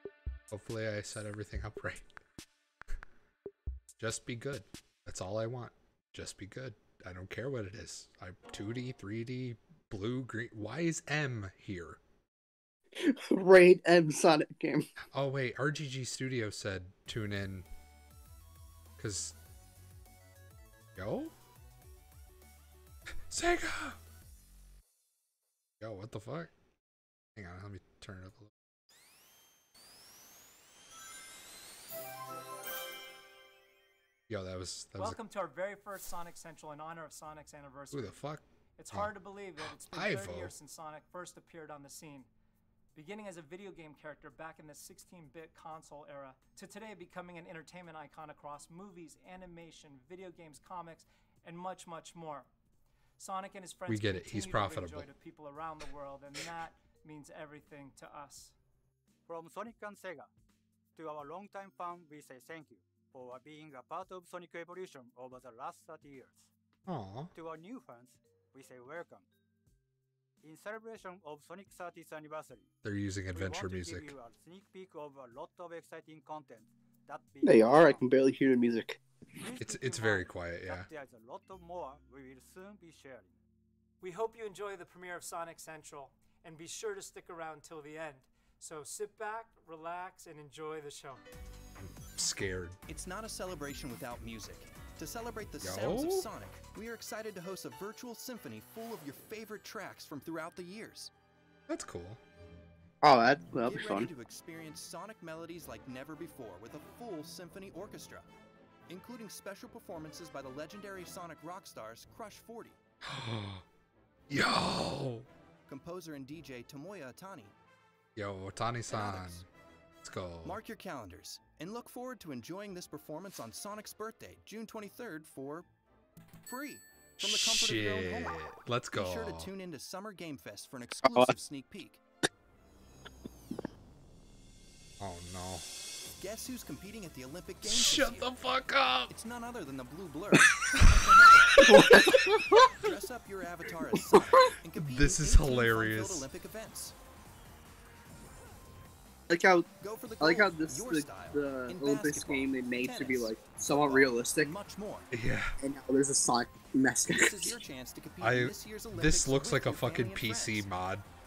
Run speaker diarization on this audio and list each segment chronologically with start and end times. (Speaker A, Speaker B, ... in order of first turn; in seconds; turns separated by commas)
Speaker A: 0.5-2.0, Speaker A: 4.0-12.0, Speaker B: 13.0-14.9, Speaker A: 15.1-17.7, Speaker A: 19.0-19.4, Speaker A: 21.0-21.3, Speaker A: 23.3-24.0, Speaker A: 25.8-26.5, Speaker A: 27.4-28.5, Speaker A: 34.3-35.2, Speaker C: 35.0-38.2, Speaker A: 37.9-40.5, Speaker C: 38.8-42.3, Speaker C: 42.9-52.5, Speaker C: 53.2-58.5, Speaker A: 53.9-55.1, Speaker D: 59.3-60.3, Speaker D: 61.0-66.5, Speaker A: 66.9-67.3, Speaker D: 67.3-69.3, Speaker D: 70.4-72.7, Speaker A: 72.8-74.1, Speaker D: 73.3-78.1, Speaker B: 77.5-79.0, Speaker C: 79.4-80.3, Speaker D: 79.5-83.3, Speaker A: 79.6-80.9, Speaker C: 84.0-91.2, Speaker A: 91.8-92.8, Speaker E: 92.9-101.1, Speaker A: 95.6-96.3, Speaker A: 101.7-102.2, Speaker B: 103.0-104.1, Speaker E: 103.6-108.3, Speaker E: 108.9-112.8, Speaker A: 113.1-113.6, Speaker A: 114.3-115.3, Speaker E: 115.7-117.5, Speaker A: 118.2-119.5, Speaker E: 118.9-119.5, Speaker A: 120.0-120.6, Speaker E: 120.4-125.7, Speaker E: 126.4-132.0, Speaker A: 127.2-129.5, Speaker B: 131.0-131.3, Speaker A: 135.0-135.7, Speaker E: 136.2-138.3, Speaker A: 137.6-139.1, Speaker E: 139.1-141.9, Speaker B: 141.6-142.7, Speaker E: 142.5-147.0, Speaker A: 144.8-146.3, Speaker B: 149.3-149.7, Speaker E: 149.8-155.1, Speaker B: 150.2-154.5, Speaker A: 155.1-155.6, Speaker B: 155.6-157.6, Speaker E: 157.1-160.7, Speaker A: 158.2-161.1